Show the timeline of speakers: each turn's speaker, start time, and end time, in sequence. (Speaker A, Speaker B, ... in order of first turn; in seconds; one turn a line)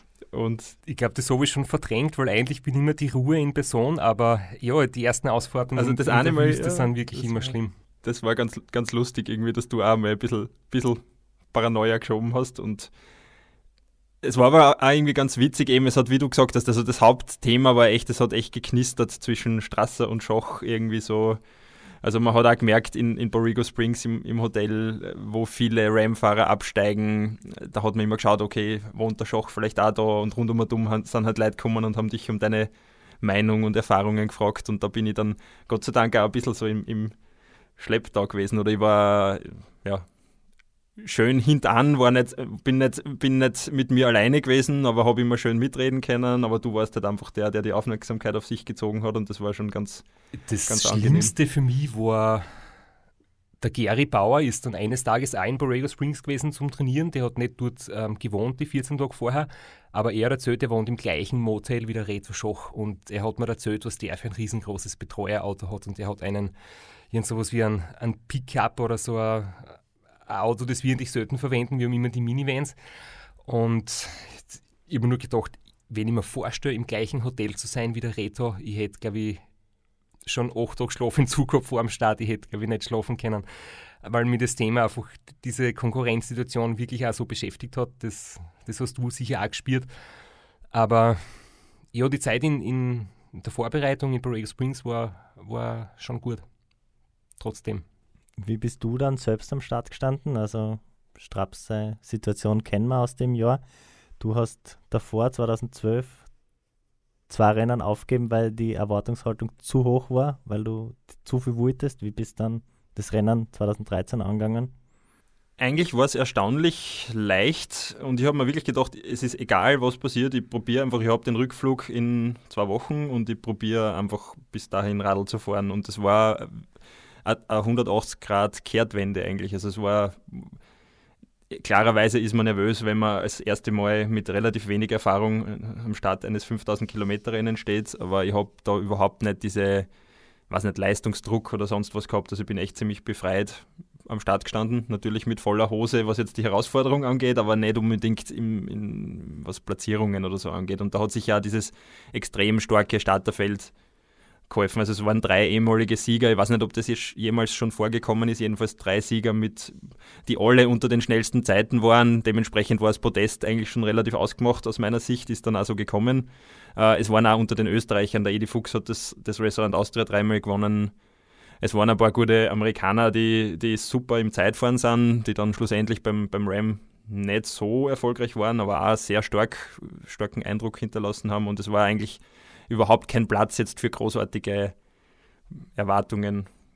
Speaker A: 0.3-0.8
Speaker B: 0.9-7.7
Speaker A: 5.8-11.0
Speaker A: 11.5-12.9
Speaker A: 14.2-21.4
Speaker A: 22.0-32.7
Speaker A: 33.2-37.1
Speaker A: 37.8-40.0
Speaker A: 41.0-50.0
Speaker B: 50.4-52.5
Speaker A: 50.6-51.3
Speaker B: 53.6-66.5
Speaker B: 67.1-72.7
Speaker B: 73.4-79.4
Speaker B: 80.3-83.5
Speaker B: 84.0-89.9
Speaker B: 90.7-91.4
Speaker B: 91.9-96.4
Speaker B: 97.4-97.8
Speaker C: 98.4-103.6
Speaker C: 104.2-106.2
Speaker C: 107.3-114.7
Speaker A: 115.6-126.5
Speaker A: 127.2-130.5
Speaker A: 131.5-139.9
Speaker A: 140.5-153.7
Speaker A: 154.5-170.9
Speaker A: 171.6-184.7
Speaker A: 185.8-186.5